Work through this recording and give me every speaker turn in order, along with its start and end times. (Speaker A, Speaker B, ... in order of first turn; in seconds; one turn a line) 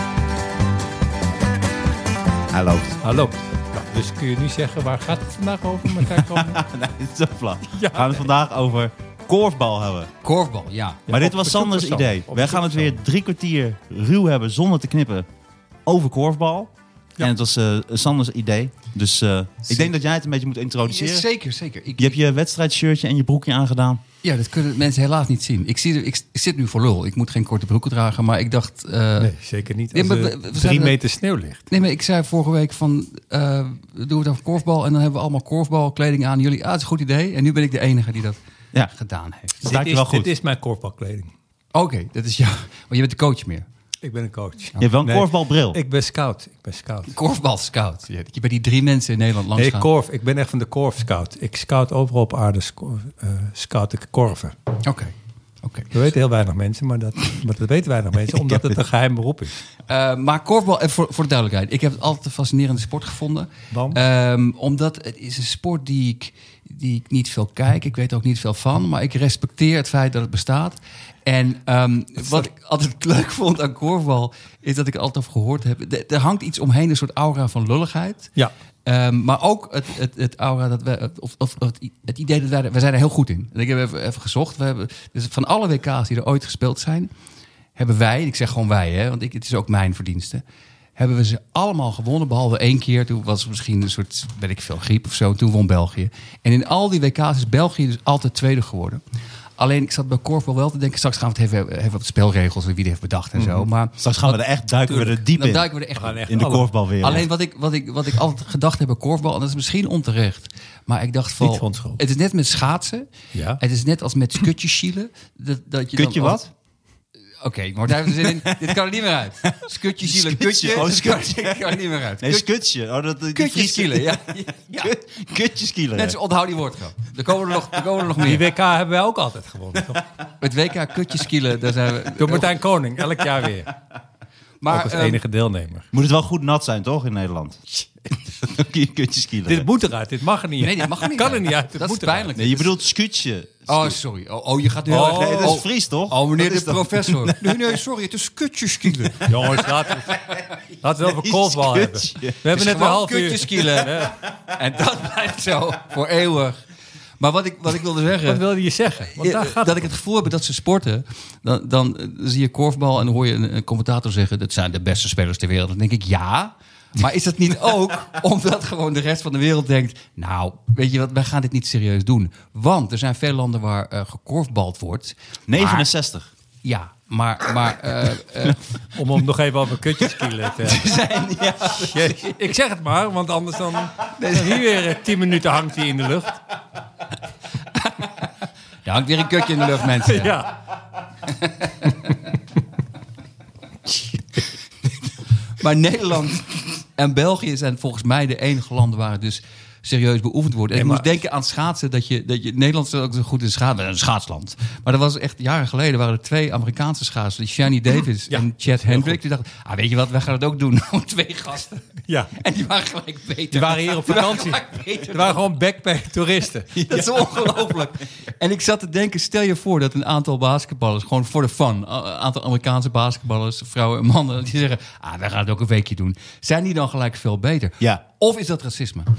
Speaker A: 2.5-3.0
Speaker B: 3.0-6.6
Speaker A: 6.1-10.1
Speaker B: 7.7-8.3
Speaker C: 10.2-11.0
Speaker B: 11.1-13.0
Speaker A: 11.1-15.3
Speaker A: 15.9-21.3
Speaker C: 20.9-22.2
Speaker A: 22.0-24.0
Speaker C: 24.2-29.3
Speaker B: 29.2-31.6
Speaker C: 29.9-31.0
Speaker C: 31.7-38.4
Speaker C: 38.9-39.6
Speaker A: 39.6-40.3
Speaker B: 39.6-41.3
Speaker C: 41.7-43.7
Speaker B: 44.0-47.1
Speaker A: 44.8-45.8
Speaker C: 47.1-49.9
Speaker B: 49.6-54.5
Speaker C: 54.8-55.9
Speaker B: 55.9-59.6
Speaker C: 59.9-78.3
Speaker B: 63.7-64.0
Speaker C: 78.8-87.1
Speaker C: 87.8-90.4
Speaker C: 91.0-99.0
Speaker C: 99.6-106.4
Speaker B: 103.4-103.7
Speaker A: 104.0-105.7
Speaker B: 106.0-106.7
Speaker A: 106.3-107.3
Speaker C: 107.0-116.5
Speaker B: 111.4-112.0
Speaker B: 113.3-113.6
Speaker A: 115.9-116.5
Speaker C: 117.4-122.5
Speaker A: 118.2-118.8
Speaker A: 119.5-124.3
Speaker C: 123.3-125.0
Speaker A: 124.8-126.2
Speaker C: 125.9-128.5
Speaker B: 128.2-130.0
Speaker C: 130.4-132.5
Speaker B: 132.1-133.7
Speaker C: 134.6-135.2
Speaker B: 134.7-135.9
Speaker A: 135.9-139.7
Speaker B: 139.5-142.3
Speaker C: 140.6-142.8
Speaker A: 142.4-144.0
Speaker C: 143.7-149.6
Speaker B: 144.9-145.6
Speaker A: 145.1-147.6
Speaker A: 148.8-149.2
Speaker B: 149.2-150.2
Speaker B: 150.8-154.2
Speaker A: 151.0-152.4
Speaker C: 152.5-156.6
Speaker C: 157.2-158.4
Speaker B: 158.3-159.9
Speaker C: 159.2-175.9
Speaker A: 175.5-176.3
Speaker C: 176.6-178.6
Speaker B: 178.9-181.0
Speaker C: 180.6-182.3
Speaker B: 181.7-186.4
Speaker C: 184.1-184.7
Speaker C: 187.7-188.3
Speaker C: 188.8-190.4
Speaker B: 190.1-190.6
Speaker C: 191.3-191.9
Speaker C: 195.6-211.8
Speaker B: 200.7-201.1
Speaker B: 208.3-209.2
Speaker B: 212.1-212.3
Speaker C: 212.4-215.5
Speaker B: 213.5-217.0
Speaker C: 216.8-229.1
Speaker A: 217.0-217.6